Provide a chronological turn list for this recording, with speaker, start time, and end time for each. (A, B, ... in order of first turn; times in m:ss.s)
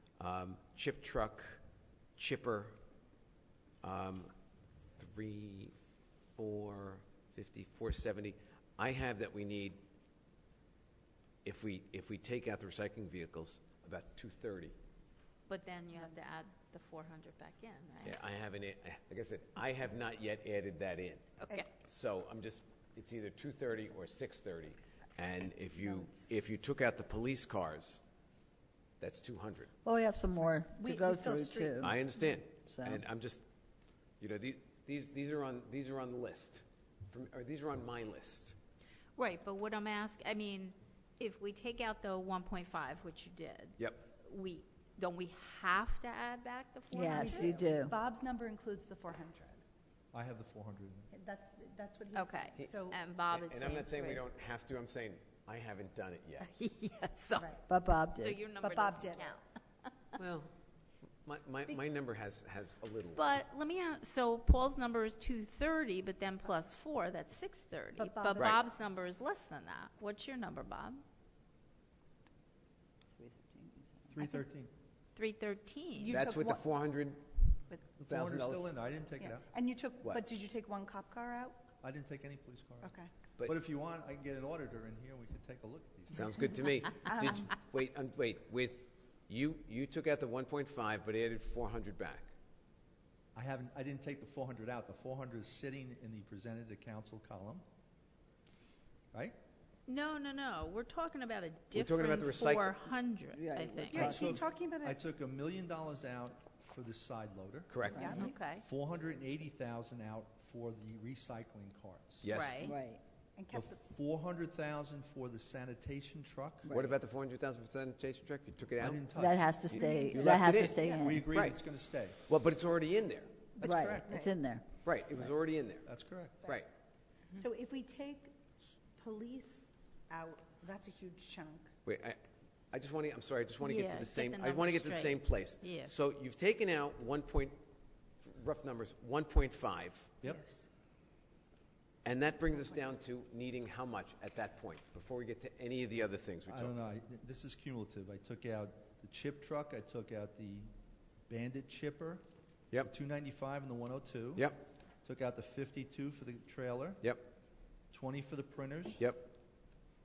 0:00.2-0:01.6 A
0:02.2-0:02.8 A
0:03.8-0:04.3 A
0:05.0-0:05.8 A
0:06.4-0:09.8 A
0:11.4-0:14.8 A
0:15.5-0:18.2 B
0:18.0-0:28.0 A
0:21.4-0:21.7 B
0:29.0-0:29.7 A
0:29.8-0:32.0 C
0:30.7-0:31.9 D
0:31.8-0:33.4 A
0:32.6-0:33.0 C
0:34.2-0:38.6 A
0:39.2-0:47.5 B
0:43.8-0:44.0 A
0:46.9-0:48.0 C
0:47.0-0:49.6 D
0:50.1-0:51.1 E
0:51.1-0:53.0 D
0:52.1-0:54.2 B
0:53.3-0:56.5 A
0:56.4-0:57.5 B
0:57.4-0:57.6 D
0:57.7-0:58.5 C
0:58.1-0:59.4 B
0:58.5-0:59.3 D
1:00.2-1:00.5 A
1:01.2-1:03.3 A
1:03.1-1:11.0 B
1:08.0-1:08.6 D
1:08.4-1:08.6 A
1:13.2-1:14.0 C
1:14.1-1:14.7 E
1:15.1-1:16.2 B
1:15.9-1:16.7 D
1:16.1-1:17.3 A
1:18.0-1:19.4 E
1:18.1-1:18.7 A
1:19.2-1:21.6 D
1:21.8-1:26.4 E
1:22.8-1:23.1 D
1:26.1-1:32.3 A
1:27.1-1:27.5 D
1:33.3-1:37.6 E
1:39.9-1:43.9 B
1:41.7-1:42.8 A
1:43.3-1:44.4 C
1:43.9-1:45.0 D
1:43.9-1:52.4 E
1:47.7-1:48.1 A
1:47.9-1:48.3 C
1:47.9-1:48.3 D
1:48.1-1:48.6 B
1:52.2-1:52.6 A
1:52.3-1:52.8 B
1:52.6-1:53.0 C
1:53.4-1:53.8 D
1:53.5-1:56.7 E
1:56.6-1:57.0 C
1:56.7-1:59.1 A
1:58.8-1:59.5 E
1:59.1-2:01.3 C
1:59.6-2:01.6 A
1:59.7-2:01.1 D
2:00.3-2:02.2 E
2:02.2-2:03.3 A
2:03.6-2:04.2 E
2:03.6-2:04.3 D
2:03.6-2:04.6 C
2:04.8-2:05.9 A
2:05.8-2:06.5 E
2:06.4-2:06.7 A
2:07.4-2:08.3 D
2:09.0-2:11.7 D
2:11.8-2:17.6 A
2:13.6-2:15.9 B
2:18.2-2:20.1 A
2:20.2-2:20.6 D
2:22.0-2:26.8 A
2:26.5-2:30.7 E
2:31.3-2:32.2 E
2:32.8-2:34.5 E
2:35.0-2:37.0 E
2:37.0-2:37.3 A
2:37.9-2:39.0 E
2:39.0-2:39.3 A